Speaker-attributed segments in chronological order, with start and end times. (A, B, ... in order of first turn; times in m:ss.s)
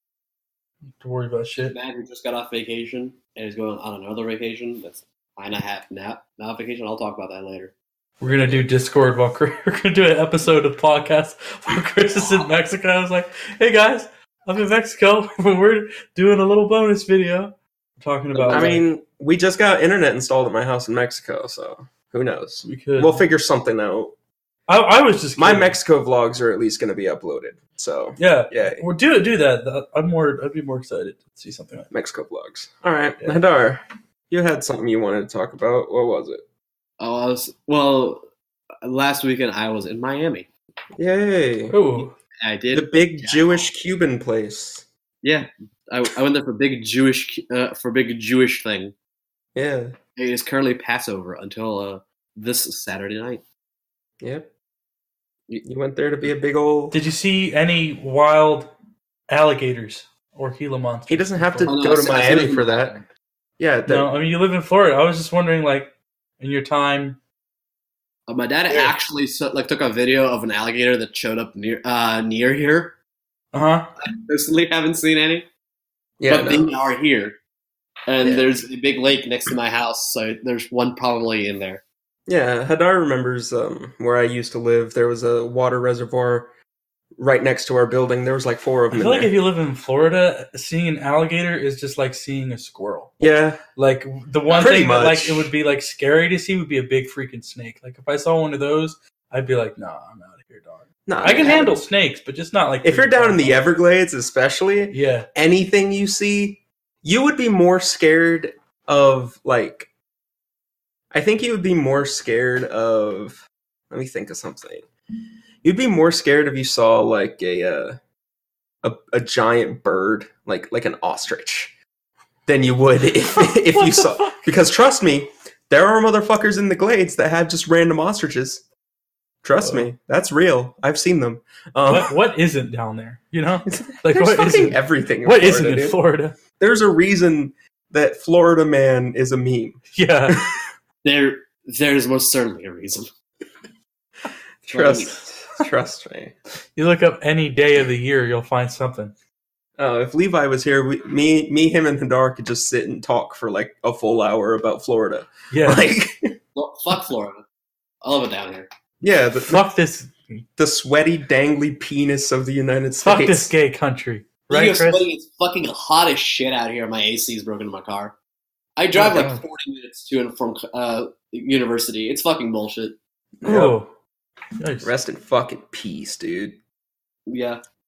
0:01.0-0:01.8 A
0:01.7-0:08.6 B
0:08.2-0:18.8 A
0:18.3-0:18.7 B
0:18.5-0:24.1 C
0:22.6-0:23.2 A
0:24.7-0:25.8 A
0:25.4-0:28.8 C
0:28.2-0:31.9 A
0:31.9-0:36.4 C
0:37.0-0:38.2 B
0:38.8-0:40.5 B
0:41.0-0:41.8 C
0:41.7-0:42.2 A
0:42.4-0:43.7 B
0:42.7-0:44.9 C
0:45.2-0:48.9 B
0:49.6-0:50.0 C
0:50.2-0:53.4 B
0:54.2-0:54.5 C
0:55.6-0:57.0 C
0:56.9-0:58.7 A
0:59.3-1:01.8 A
1:01.1-1:03.0 C
1:01.7-1:03.1 B
1:03.6-1:04.1 C
1:03.9-1:07.2 A
1:08.3-1:13.0 B
1:13.5-1:13.9 A
1:14.0-1:15.5 B
1:16.2-1:16.7 C
1:16.3-1:17.4 B
1:18.1-1:21.8 B
1:18.2-1:18.5 C
1:22.3-1:26.5 C
1:27.2-1:29.3 C
1:28.9-1:43.7 A
1:33.2-1:33.6 C
1:34.5-1:35.5 C
1:41.1-1:41.9 C
1:42.8-1:49.9 C
1:44.9-1:45.3 A
1:51.1-1:54.8 C
1:55.6-1:58.0 C
1:58.8-2:01.8 C
2:02.5-2:08.6 C
2:03.4-2:04.5 A
2:09.4-2:12.1 C
2:09.6-2:09.9 A
2:11.9-2:16.4 A
2:13.7-2:16.0 C
2:16.6-2:20.6 C
2:19.9-2:20.4 A
2:21.0-2:23.1 B
2:24.6-2:26.4 C
2:24.7-2:25.2 B
2:26.8-2:29.1 A
2:29.8-2:36.3 C
2:35.5-2:35.9 A
2:36.6-2:37.4 B
2:38.0-2:38.7 B
2:39.0-2:39.6 C
2:39.5-2:40.4 A
2:40.6-2:43.5 C
2:43.0-2:45.0 A
2:44.5-2:48.2 B
2:48.8-2:53.0 B
2:48.9-2:49.4 C
2:53.4-2:53.8 C
2:53.4-2:53.9 A
2:54.6-2:54.9 A
2:54.8-2:56.6 C
2:57.3-2:57.6 B